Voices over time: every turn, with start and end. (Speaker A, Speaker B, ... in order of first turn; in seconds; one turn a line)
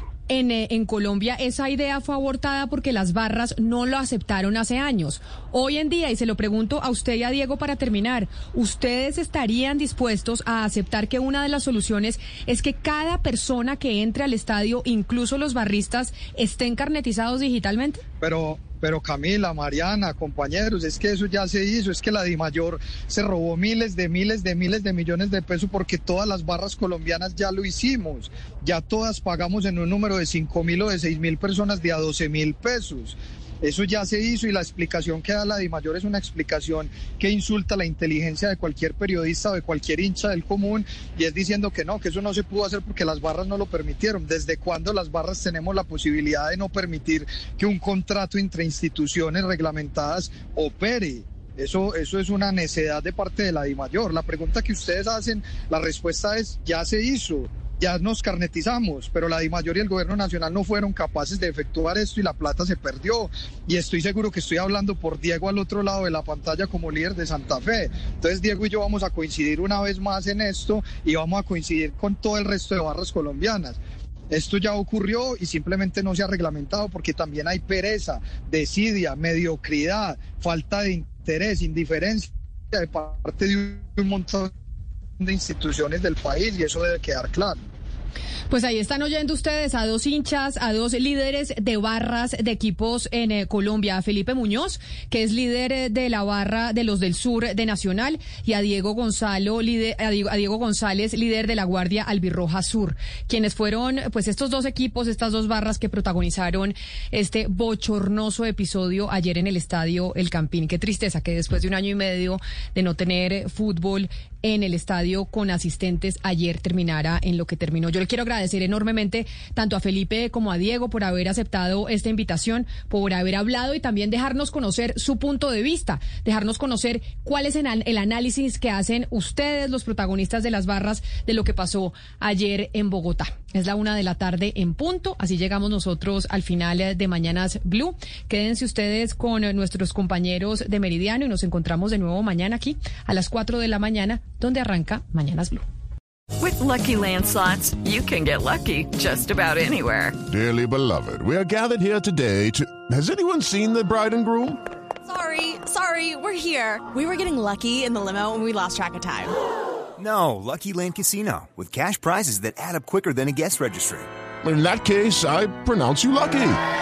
Speaker A: 0.3-18.0
Speaker B: 18.2-73.8
Speaker B: 74.3-84.5
Speaker B: 85.2-87.6
Speaker A: 88.5-145.6
Speaker C: 146.4-150.2
Speaker D: 150.3-154.6
Speaker E: 155.0-159.3
Speaker F: 160.0-164.1
Speaker D: 164.4-166.6